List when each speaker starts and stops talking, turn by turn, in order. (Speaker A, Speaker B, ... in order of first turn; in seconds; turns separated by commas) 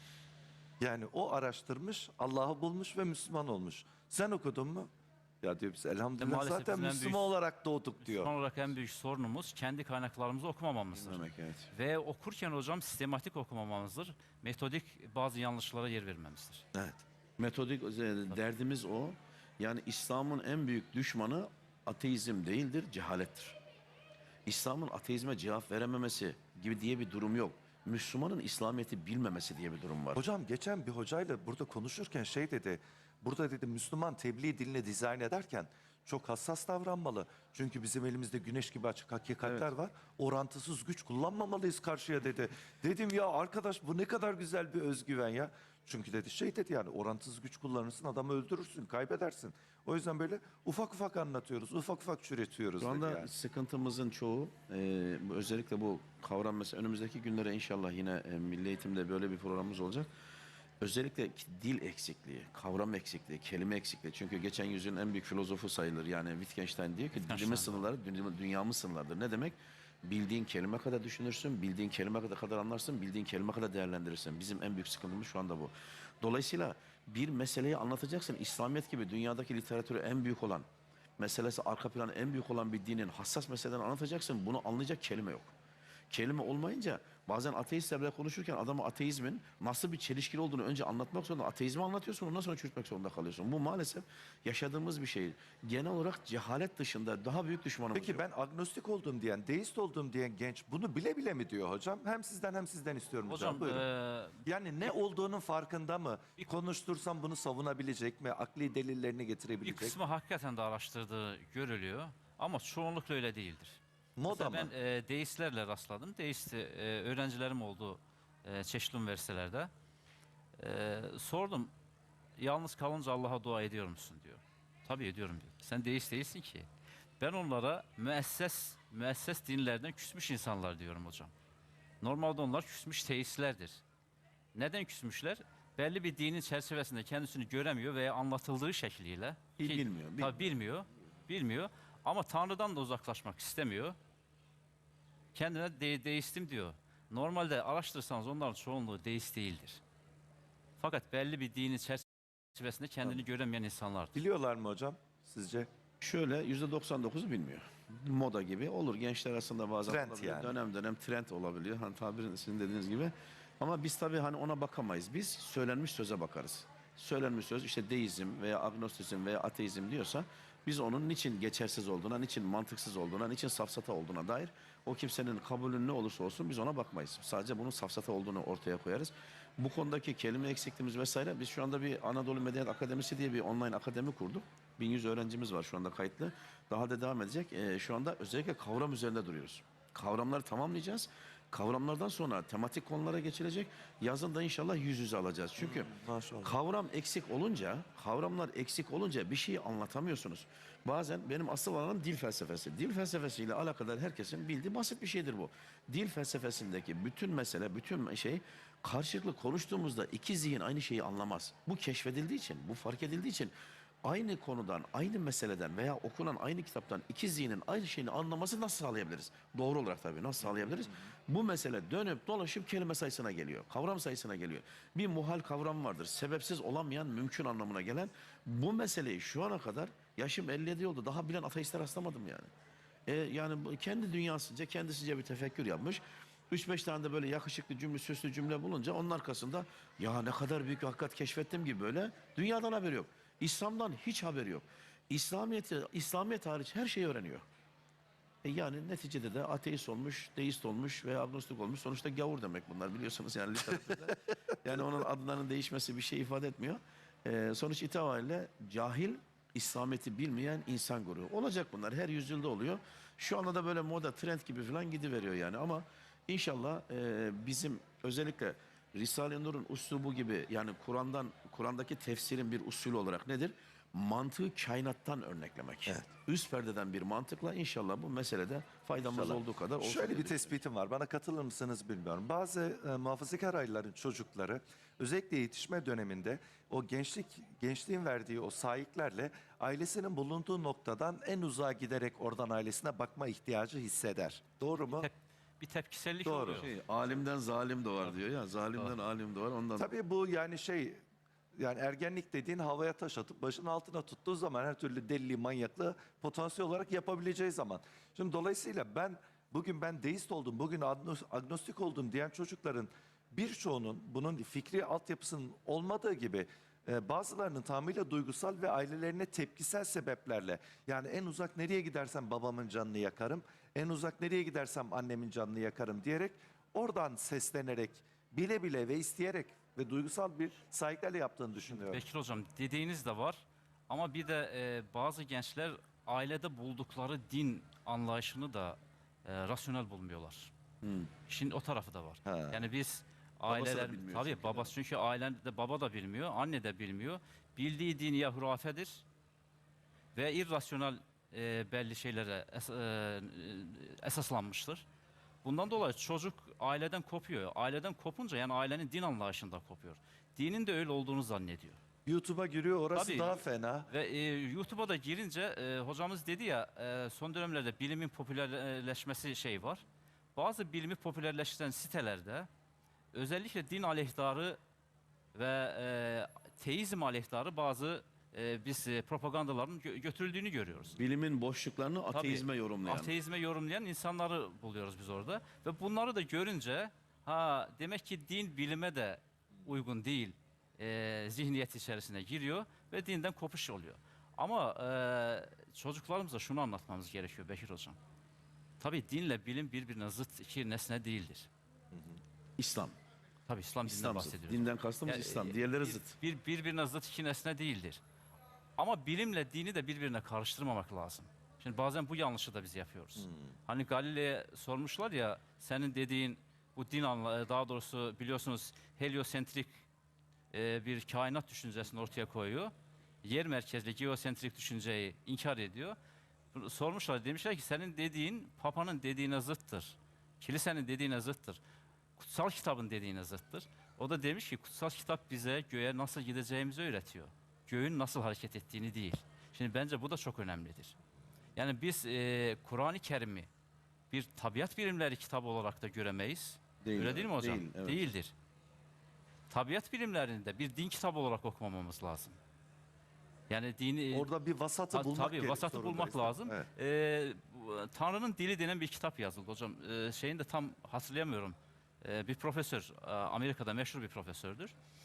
Speaker A: 0.8-4.9, Speaker A: 5.4-8.3, Speaker B: 6.2-7.3, Speaker B: 8.0-16.6, Speaker C: 10.9-11.7, Speaker C: 17.4-23.6, Speaker C: 24.5-30.2, Speaker A: 30.1-53.3, Speaker C: 39.4-39.7, Speaker C: 52.8-60.1, Speaker C: 60.8-80.6, Speaker B: 67.1-67.9, Speaker C: 81.2-85.5, Speaker C: 86.1-98.2, Speaker A: 97.9-103.8, Speaker B: 103.2-104.4, Speaker A: 104.4-110.0, Speaker B: 109.6-119.7, Speaker A: 114.2-114.7, Speaker B: 120.6-121.7, Speaker B: 122.4-126.7, Speaker B: 127.2-131.3, Speaker B: 132.0-133.8, Speaker B: 134.6-144.0, Speaker C: 139.6-140.6, Speaker B: 145.3-149.8, Speaker B: 150.8-154.2, Speaker A: 154.1-155.7, Speaker C: 156.0-232.5, Speaker A: 159.9-160.6, Speaker A: 195.6-196.5, Speaker C: 233.1-247.4, Speaker C: 248.4-280.6, Speaker A: 279.0-295.1, Speaker B: 294.9-297.1, Speaker A: 296.2-296.7, Speaker C: 296.5-299.9, Speaker A: 299.8-301.0, Speaker A: 301.6-332.0, Speaker B: 331.7-340.5, Speaker C: 340.8-341.1, Speaker B: 341.3-349.0, Speaker A: 342.2-342.7, Speaker C: 343.5-344.7, Speaker B: 350.1-354.8, Speaker B: 355.4-361.8, Speaker A: 362.1-363.9, Speaker B: 362.9-369.8, Speaker B: 370.3-372.5, Speaker B: 373.1-374.6, Speaker B: 375.3-380.9, Speaker C: 380.9-383.2, Speaker B: 382.1-398.0, Speaker B: 398.8-401.5, Speaker A: 401.9-402.2, Speaker C: 402.6-402.9, Speaker B: 403.5-408.0, Speaker C: 403.8-406.2, Speaker B: 408.8-419.8, Speaker A: 413.2-413.5, Speaker B: 420.5-422.7, Speaker B: 423.2-426.0, Speaker B: 426.5-431.6, Speaker B: 432.2-440.9, Speaker B: 441.6-443.5, Speaker B: 444.1-448.3, Speaker C: 446.8-448.1, Speaker B: 449.5-452.4, Speaker B: 453.5-454.3, Speaker A: 454.1-456.7, Speaker B: 454.9-464.7